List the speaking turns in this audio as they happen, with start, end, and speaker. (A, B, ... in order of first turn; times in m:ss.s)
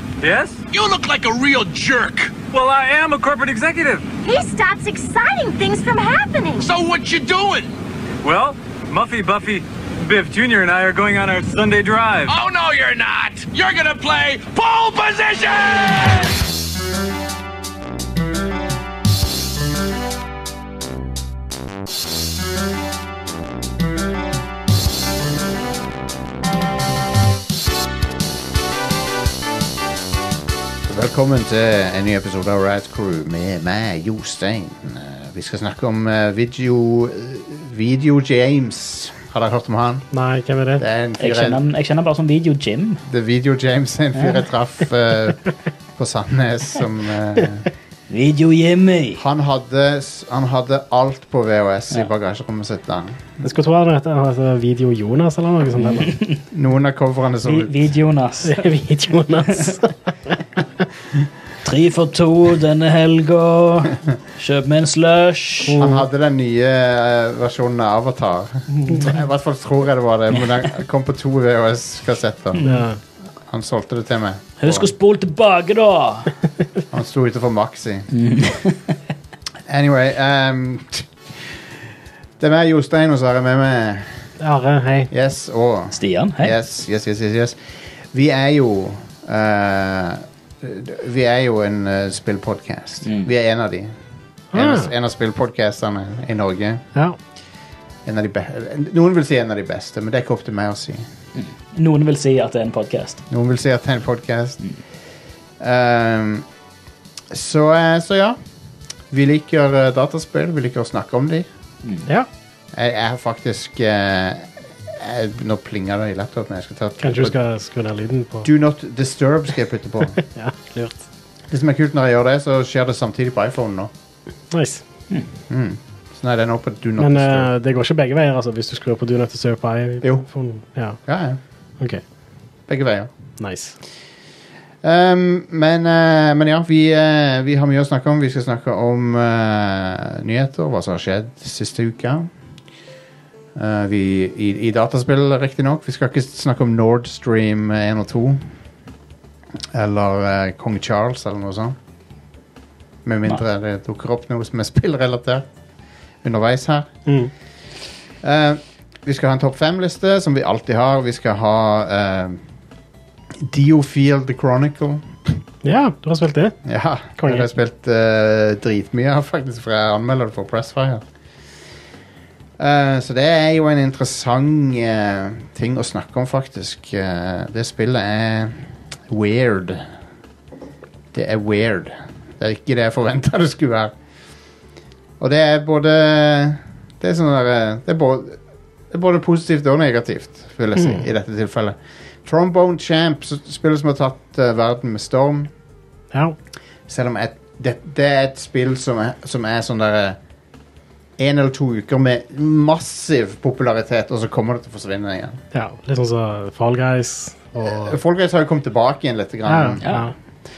0:00.2-0:00.6 A
0:00.7-0:02.3 B
0:02.5-0:04.1 A
0:04.2-0:06.7 C
0:06.6-0:07.7 B
0:08.2-0:12.3 A
0:12.3-0:16.3 B
0:30.9-0:40.0 D
0:40.1-0:40.8 E
0:40.8-0:41.6 D
0:41.2-0:43.0 F
0:43.1-0:45.4 D
0:46.0-0:47.7 D
0:48.1-0:49.2 F
0:49.2-0:53.4 D
0:53.4-0:56.1 E
0:55.8-0:56.4 F
0:56.5-0:57.9 D
0:57.4-0:58.7 F
0:58.4-1:00.4 E
0:59.4-0:59.8 F
1:01.6-1:05.8 F
1:05.6-1:06.0 E
1:05.8-1:12.6 D
1:08.8-1:09.1 F
1:12.5-1:12.9 F
1:12.6-1:13.0 E
1:13.5-1:14.9 D
1:14.6-1:16.3 F
1:16.9-1:18.1 D
1:18.1-1:18.9 F
1:19.7-1:21.6 D
1:22.4-1:24.2 D
1:24.4-1:25.1 E
1:25.1-1:27.6 D
1:25.9-1:26.5 F
1:28.1-1:33.9 D
1:33.0-1:33.3 F
1:34.5-1:34.9 E
1:34.5-1:36.8 D
1:38.0-1:41.0 D
1:41.4-1:43.2 F
1:43.3-1:44.6 D
1:45.6-1:46.4 D
1:47.3-1:48.4 D
1:49.1-1:51.5 D
1:51.8-1:52.1 F
1:52.7-1:57.3 D
1:57.0-1:58.5 E
1:58.4-2:00.2 D
2:00.2-2:01.0 E
2:01.5-2:03.9 D
2:04.5-2:04.8 E
2:05.5-2:07.5 D
2:07.0-2:11.0 E
2:11.0-2:11.4 D
2:12.7-2:13.1 D
2:13.4-2:13.8 E
2:14.8-2:22.3 D
2:23.5-2:28.4 D
2:29.7-2:31.8 D
2:33.0-2:35.4 D
2:36.2-2:36.9 D
2:37.0-2:37.3 E
2:38.2-2:42.4 D
2:43.4-2:45.3 D
2:45.6-2:47.5 E
2:46.6-2:51.0 D
2:52.6-2:58.6 D
2:59.1-2:59.9 D
3:01.1-3:03.9 D
3:05.2-3:08.4 D
3:08.9-3:15.5 D
3:10.8-3:11.0 E
3:16.9-3:20.2 D
3:21.2-3:25.4 D
3:25.5-3:28.0 E
3:27.6-3:29.9 D
3:29.4-3:30.1 E
3:29.8-3:30.1 F